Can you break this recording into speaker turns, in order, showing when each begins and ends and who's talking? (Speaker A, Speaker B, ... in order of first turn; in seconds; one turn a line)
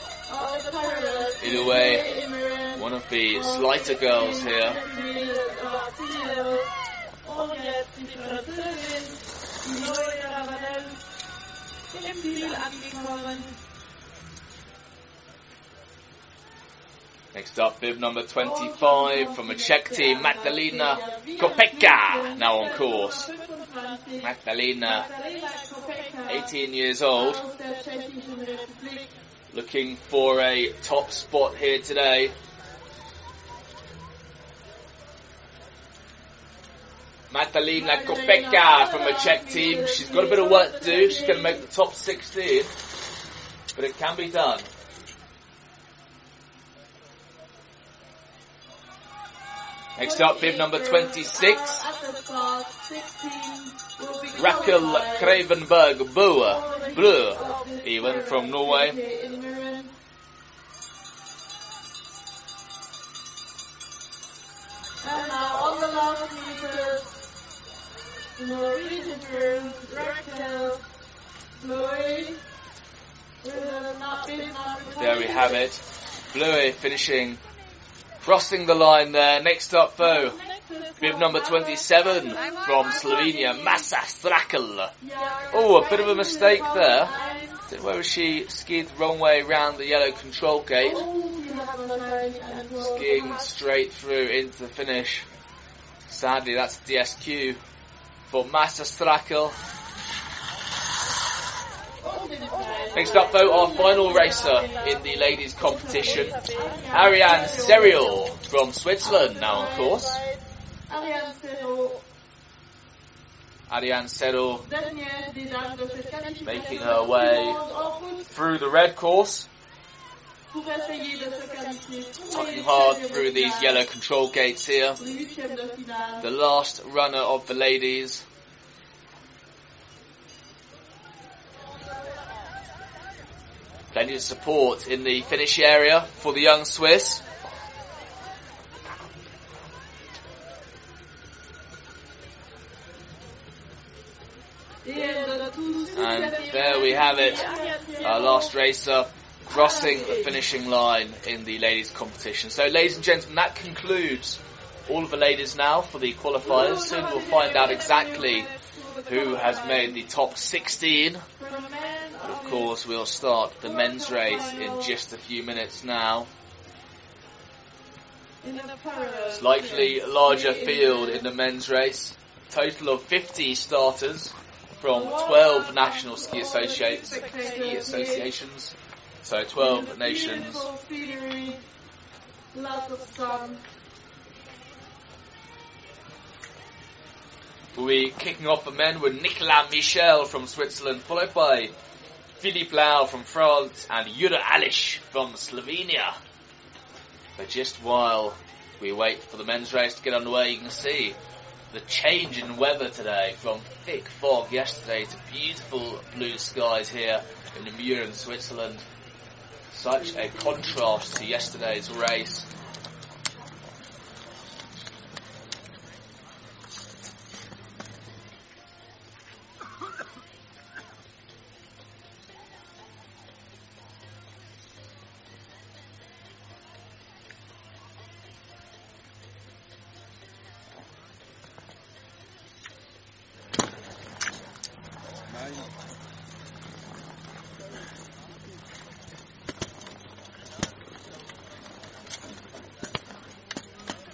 Speaker A: 0.3-2.8
Speaker B: 1.4-2.1
Speaker B: 2.8-4.8
Speaker A: 3.5-6.7
Speaker A: 7.2-11.0
Speaker A: 11.9-13.6
Speaker B: 17.3-23.3
Speaker A: 18.5-24.2
Speaker B: 24.2-25.1
Speaker A: 24.9-26.4
Speaker B: 26.3-27.4
Speaker A: 27.2-29.1
Speaker B: 29.5-32.4
Speaker B: 37.3-42.7
Speaker A: 37.8-41.6
Speaker B: 43.7-44.7
Speaker B: 50.0-51.8
Speaker A: 50.1-55.4
Speaker B: 54.4-59.0
Speaker A: 56.5-59.9
Speaker A: 65.0-67.1
Speaker A: 68.4-70.8
Speaker A: 71.5-72.4
Speaker A: 73.4-75.6
Speaker B: 75.0-77.4
Speaker B: 78.2-80.4
Speaker A: 80.3-83.8
Speaker B: 81.0-84.9
Speaker A: 85.0-87.6
Speaker B: 85.5-87.1
Speaker B: 87.7-91.1
Speaker A: 90.8-93.3
Speaker B: 92.8-95.3
Speaker B: 96.1-97.6
Speaker B: 98.3-99.6
Speaker A: 102.0-104.8
Speaker B: 102.9-106.4
Speaker A: 106.1-108.3
Speaker B: 106.9-110.2
Speaker A: 110.9-112.0
Speaker B: 113.7-114.7
Speaker A: 114.7-118.2
Speaker B: 116.5-117.6
Speaker B: 118.3-119.5
Speaker A: 120.5-123.8
Speaker B: 122.3-125.0
Speaker A: 125.0-126.2
Speaker B: 126.2-128.3
Speaker B: 133.9-137.2
Speaker A: 144.8-148.3
Speaker B: 145.9-147.4
Speaker B: 148.0-158.5
Speaker A: 149.7-150.1
Speaker A: 156.5-159.9
Speaker B: 159.1-161.2
Speaker A: 161.4-162.7
Speaker B: 162.2-166.3
Speaker A: 163.8-164.9
Speaker A: 168.4-171.2
Speaker B: 169.3-180.7
Speaker A: 175.0-178.2
Speaker A: 179.6-181.6
Speaker A: 182.5-183.6
Speaker B: 187.7-191.7
Speaker B: 192.4-196.2
Speaker B: 197.4-201.2
Speaker B: 201.7-208.8
Speaker B: 209.7-212.5